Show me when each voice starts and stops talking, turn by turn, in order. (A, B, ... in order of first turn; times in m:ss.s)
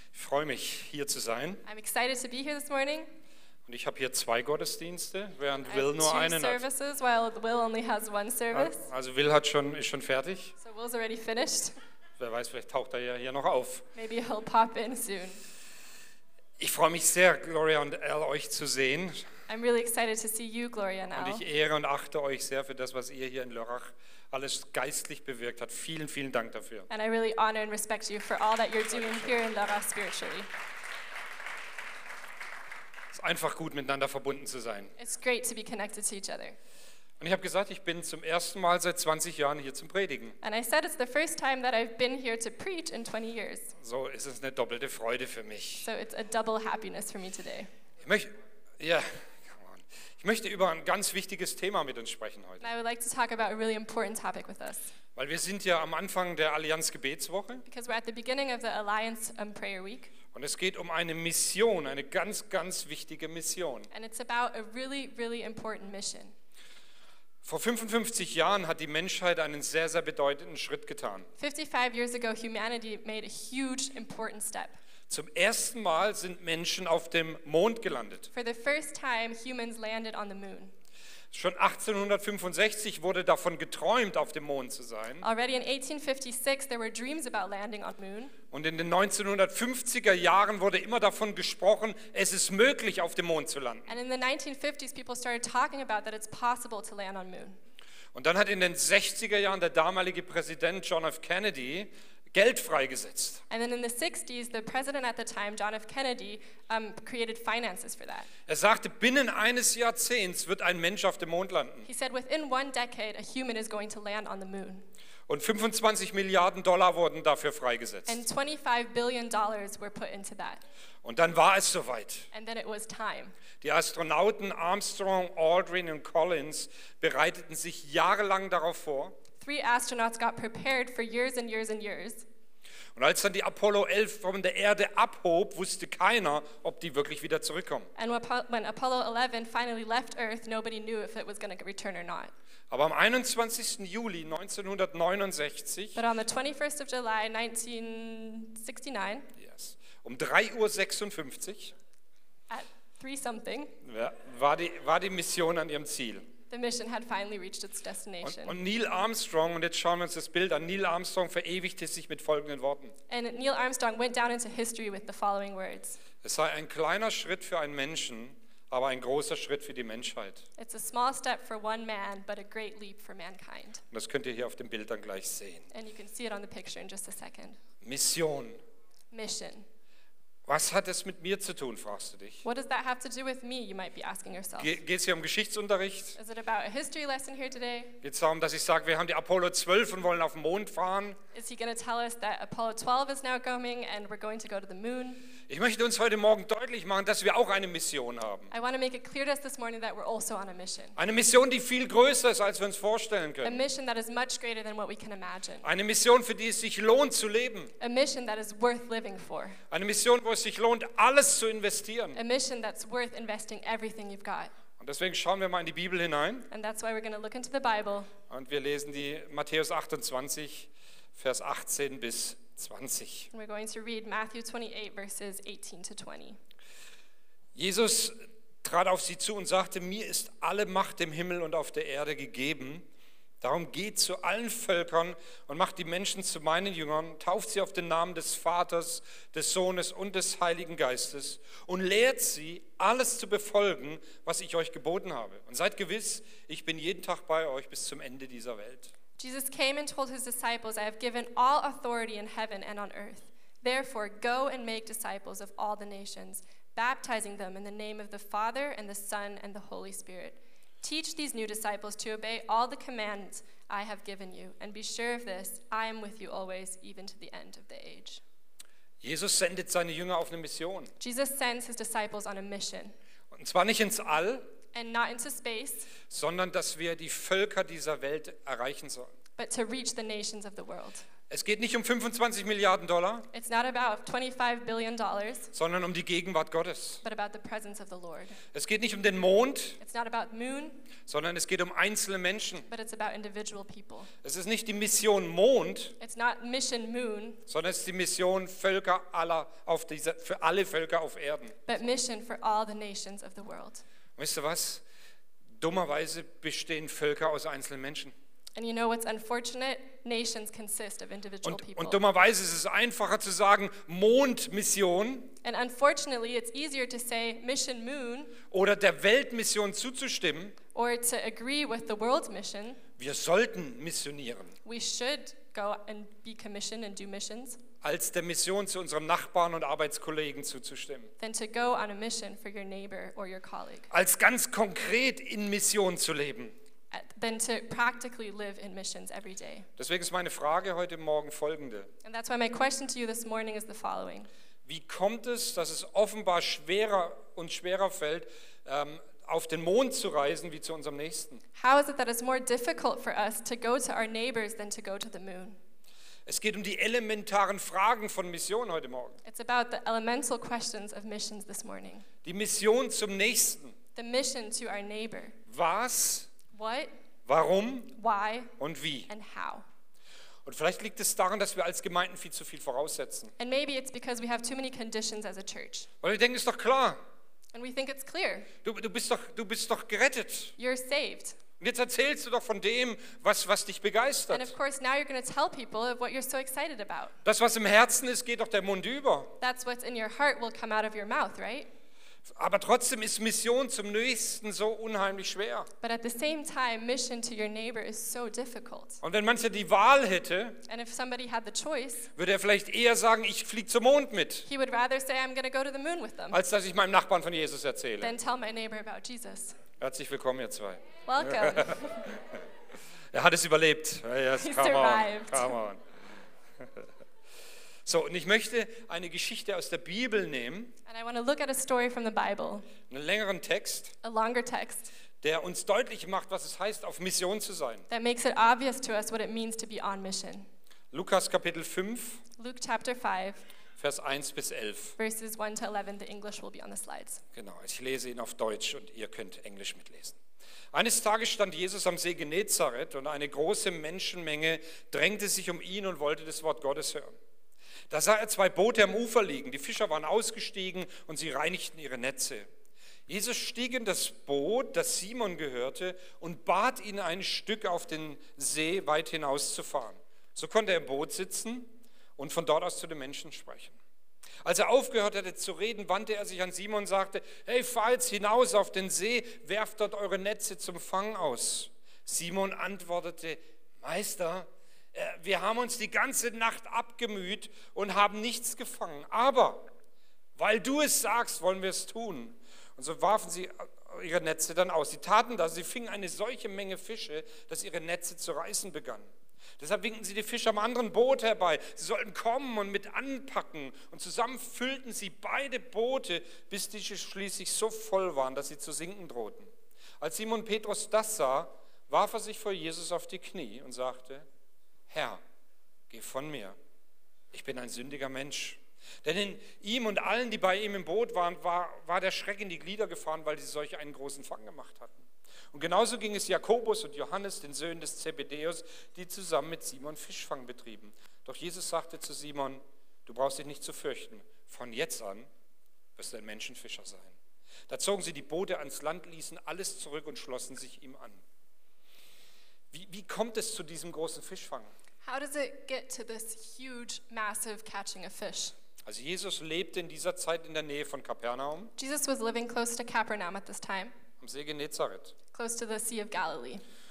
0:00.1-0:01.6 A
0:01.6-0:03.1 B
0:03.6-0:06.6 A
0:05.6-0:08.9 B
0:08.5-0:10.6 A
0:10.6-0:11.8 B
0:12.2-0:13.9 A
0:13.9-0:15.4 B
0:16.6-0:19.2 A
0:19.5-0:21.4 B
0:21.1-0:26.9 A
0:26.9-0:30.5 B
0:28.9-0:29.4 A
0:33.1-0:34.9 A
0:35.0-0:36.6 B
0:37.2-0:40.4 A
0:40.4-0:43.7 B
0:43.8-0:45.9 A
0:45.8-0:47.7 B
0:48.0-0:52.7 A
0:52.6-0:54.9 B
0:55.2-0:57.6 A
0:57.6-1:00.1 B
1:00.3-1:03.9 A
1:03.9-1:06.3 B
1:07.4-1:11.3 A
1:11.4-1:14.8 B
1:15.1-1:18.3 A
1:18.3-1:20.7 B
1:21.3-1:25.2 A
1:25.2-1:28.3 B
1:28.5-1:33.9 A
1:33.9-1:37.6 B
1:38.1-1:43.4 A
1:43.5-1:48.3 B
1:48.5-1:51.9 A
1:51.8-1:54.9 B
1:55.3-1:58.2 A
1:58.0-2:00.6 B
2:01.0-2:02.3 A
2:02.3-2:03.4 B
2:03.6-2:09.2 A
2:09.4-2:12.2 B
2:13.0-2:17.9 A
2:18.0-2:22.3 B
2:22.7-2:26.0 A
2:26.0-2:29.3 B
2:29.4-2:31.7 A
2:32.5-2:33.7 B
2:33.8-2:36.2 A
2:36.5-2:38.6 B
2:38.2-2:42.9 A
2:43.1-2:46.0 B
2:46.2-2:50.4 A
2:50.6-2:53.8 B
2:53.9-2:55.7 A
2:55.7-2:57.6 B
2:57.8-2:58.6 A
2:59.1-2:59.6 B
3:00.4-3:02.4 A
3:02.4-3:04.8 B
3:04.6-3:06.2 A
3:06.2-3:08.0 B
3:08.0-3:11.2 A
3:11.3-3:15.3 B
3:15.5-3:18.5 A
3:18.5-3:21.0 B
3:21.0-3:23.6 A
3:23.4-3:25.6 B
3:25.6-3:27.7 A
3:27.8-3:29.6 B
3:29.7-3:32.2 A
3:32.1-3:34.5 B
3:34.8-3:36.5 A
3:36.5-3:38.1 B
3:38.3-3:43.3 A
3:43.3-3:46.4 B
3:47.5-3:52.9 A
3:53.4-4:08.9 A
4:09.2-4:28.2 B
4:29.0-4:30.9 A
4:31.0-4:32.9 B
4:33.3-4:34.5 A
4:34.7-4:35.9 B
4:36.0-4:39.1 A
4:39.4-4:41.0 B
4:41.3-4:43.3 A
4:43.3-4:45.5 B
4:45.5-4:47.0 A
4:47.0-4:48.4 B
4:48.5-4:49.8 A
4:49.8-4:50.9 B
4:51.0-4:52.7 A
4:52.7-4:54.1 B
4:54.2-4:55.9 A
4:56.0-4:57.4 B
4:57.5-5:01.6 A
5:01.7-5:03.8 B
5:04.2-5:04.8 A
5:05.6-5:08.1 A
5:08.6-5:12.0 B
5:11.4-5:15.4 A
5:15.4-5:18.4 B
5:18.5-5:20.6 A
5:20.7-5:22.8 B
5:23.0-5:24.5 A
5:24.6-5:27.6 B
5:27.8-5:31.1 A
5:31.2-5:33.9 B
5:33.9-5:36.5 A
5:36.9-5:39.7 B
5:39.8-5:41.9 A
5:42.0-5:44.3 B
5:44.6-5:51.4 A
5:51.6-5:55.6 B
5:56.2-5:59.2 A
5:59.2-6:02.1 B
6:02.2-6:03.8 A
6:03.9-6:05.4 B
6:05.5-6:06.3 A
6:06.5-6:06.9 B
6:07.3-6:07.9 A
6:08.0-6:08.5 B
6:08.6-6:09.1 A
6:09.1-6:09.6 B
6:10.4-6:13.3 A
6:13.4-6:15.9 B
6:16.0-6:17.0 A
6:17.5-6:18.5 B
6:18.6-6:20.5 A
6:20.6-6:21.4 B
6:21.6-6:24.5 A
6:24.3-6:27.2 B
6:27.2-6:29.3 A
6:29.4-6:31.7 B
6:32.3-6:35.7 A
6:35.8-6:39.0 B
6:39.0-6:40.6 A
6:40.6-6:42.1 B
6:42.2-6:44.5 A
6:44.5-6:46.4 B
6:46.3-6:48.1 A
6:48.0-6:49.6 B
6:49.8-6:52.4 A
6:51.0-6:52.2 B
6:53.1-6:55.8 A
6:54.4-6:55.6 B
6:56.6-6:56.8 A
6:57.8-7:00.8 A
7:00.9-7:02.7 B
7:02.9-7:03.9 A
7:04.0-7:04.9 B
7:05.2-7:07.8 A
7:07.9-7:10.5 B
7:10.9-7:12.2 A
7:12.4-7:13.5 B
7:13.8-7:15.0 A
7:15.0-7:17.2 B
7:17.3-7:20.2 A
7:20.7-7:27.2 A
7:27.9-7:32.5 A
7:33.1-7:43.8 A
7:44.4-7:59.7 A
8:00.4-8:09.1 A
8:09.6-8:19.5 A
8:20.0-8:24.2 A
8:24.9-8:25.2 A
8:25.9-8:26.6 A
8:27.3-8:45.3 A
8:46.0-8:47.2 A
8:47.7-8:51.2 A
8:52.7-8:54.7 A
8:55.0-8:58.5 B
8:58.8-9:01.7 A
9:01.8-9:03.9 B
9:04.2-9:05.1 A
9:05.3-9:06.6 B